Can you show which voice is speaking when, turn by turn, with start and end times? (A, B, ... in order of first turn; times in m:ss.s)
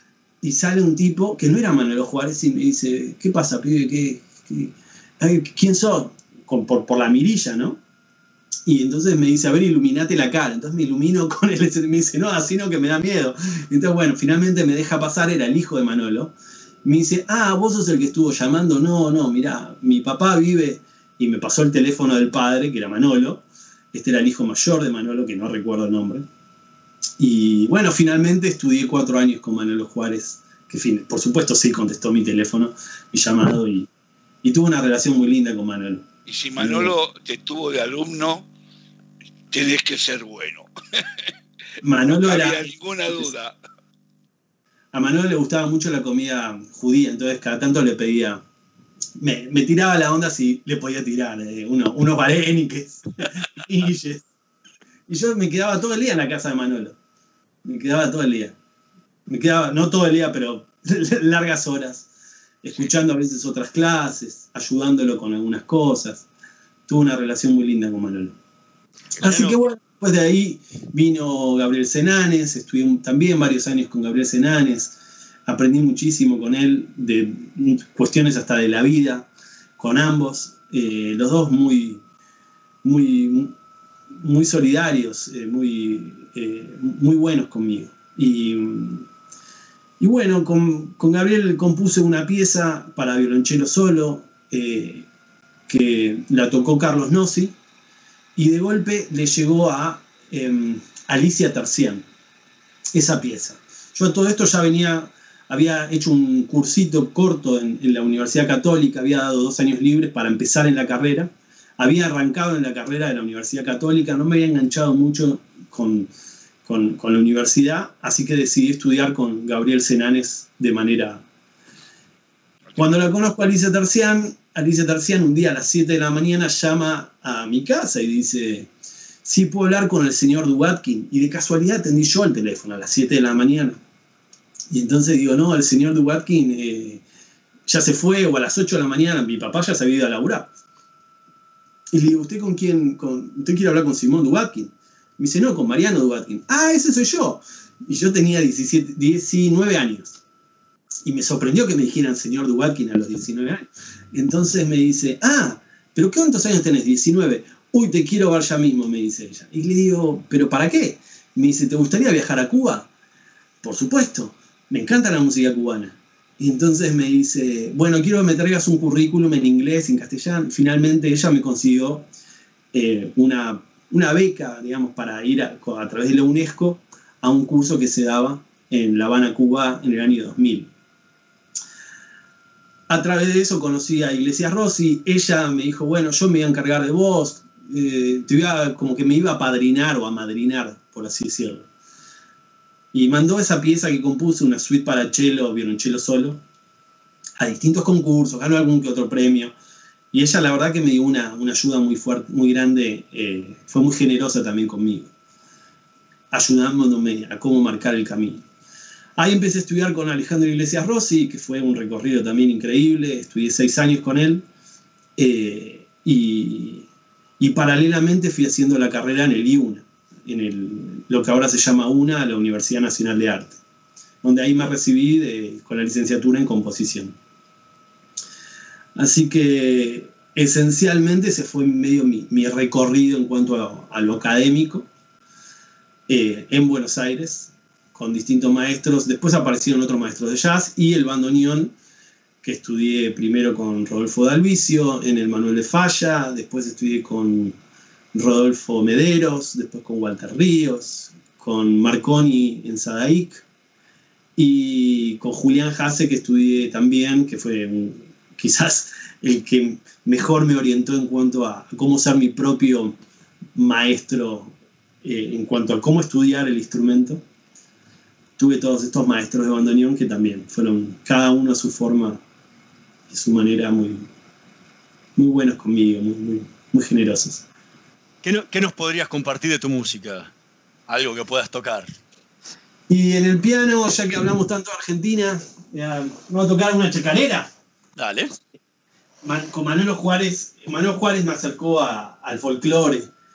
0:00.4-0:07.8 A
0:08.7-0:26.2 A
0:27.2-0:33.9 A
0:34.4-0:36.9 A
0:36.3-0:38.5 B
0:39.5-0:41.3 B
0:41.8-0:43.3 A
0:42.1-0:43.6 B
0:44.9-0:48.4 A
0:49.2-0:54.2 A
0:55.1-0:57.0 A
0:57.6-0:58.6 A
0:59.3-1:02.1 A
1:02.6-1:06.3 A
1:06.9-1:08.4 A
1:09.2-1:15.0 A
1:09.2-1:09.6 C
1:15.5-1:22.0 A
1:22.8-1:23.5 A
1:24.2-1:29.1 A
1:30.0-1:35.1 A
1:35.7-1:37.6 A
1:38.4-1:42.0 A
1:42.9-1:56.1 A
1:56.6-2:01.2 A
2:02.8-2:08.7 A
2:09.2-2:13.8 A
2:14.7-2:17.0 A
2:17.7-2:20.5 A
2:21.9-2:30.2 A
2:31.0-2:42.9 A
2:43.6-2:52.1 A
2:52.7-3:00.7 A
3:02.9-3:11.7 A
3:12.9-3:16.4 A
3:17.4-3:19.5 A
3:20.1-3:25.1 A
3:26.3-3:28.4 A
3:29.2-3:34.5 A
3:35.2-3:36.9 A
3:37.4-3:43.6 A
3:44.2-3:47.2 A
3:49.0-3:54.9 A
3:56.1-4:01.7 A
4:02.4-4:07.6 A
4:08.1-4:13.4 A
4:14.4-4:23.0 A
4:23.5-4:27.2 A
4:28.4-4:32.2 A
4:33.1-4:34.1 A
4:35.2-4:37.5 A
4:38.2-4:40.3 C
4:40.9-4:42.0 C
4:42.9-4:47.5 A
4:48.0-4:48.4 C
4:49.2-4:53.1 A